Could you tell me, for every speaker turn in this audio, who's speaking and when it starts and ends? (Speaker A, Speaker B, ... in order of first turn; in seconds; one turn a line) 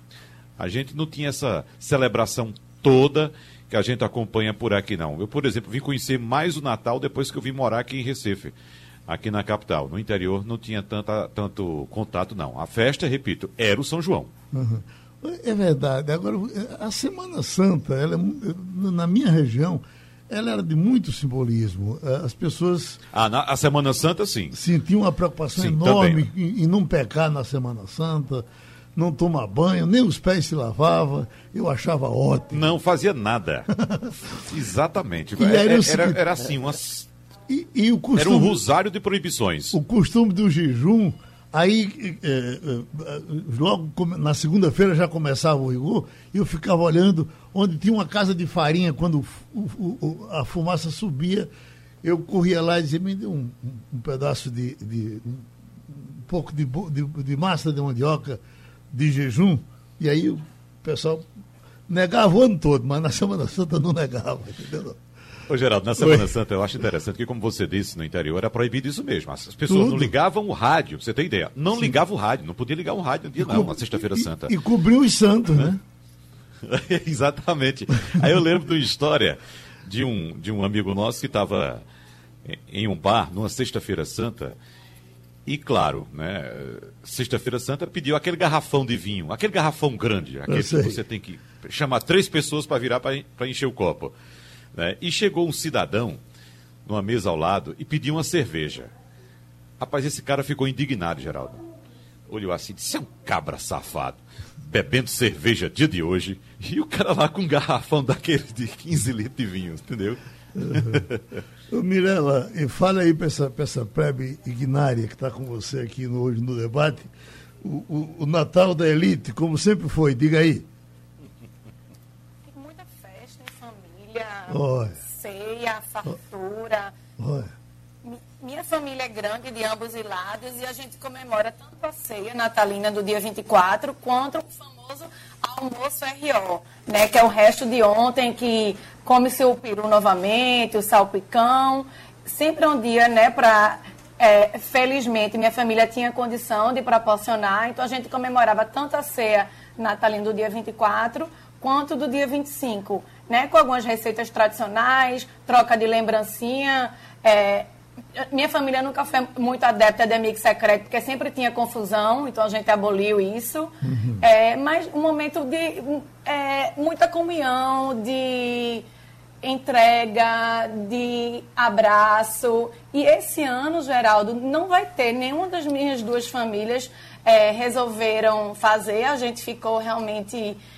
Speaker A: 0.6-8.6
Speaker A: 9.1-14.3
Speaker B: 14.5-23.0
Speaker A: 23.1-24.6
Speaker B: 24.5-32.6
Speaker A: 25.6-26.2
Speaker A: 32.5-33.7
Speaker A: 34.3-37.1
Speaker B: 35.4-36.2
Speaker B: 37.5-38.6
Speaker A: 38.1-39.8
Speaker B: 39.7-51.5
Speaker B: 52.0-58.4
Speaker B: 58.9-61.2
Speaker B: 61.9-65.0
Speaker A: 65.5-74.5
Speaker B: 66.0-66.3
Speaker B: 69.7-70.1
Speaker B: 73.4-75.8
Speaker A: 76.6-81.8
Speaker A: 82.4-84.5
Speaker A: 85.5-94.1
Speaker B: 90.5-91.0
Speaker A: 94.7-96.2
Speaker A: 96.8-98.9
Speaker A: 99.8-101.6
Speaker A: 102.3-111.2
Speaker B: 110.7-111.0
Speaker B: 111.7-120.7
Speaker C: 122.5-126.9
Speaker B: 124.5-125.0
Speaker B: 127.2-127.5
Speaker C: 128.0-168.8
Speaker B: 163.8-164.2
Speaker C: 169.4-180.6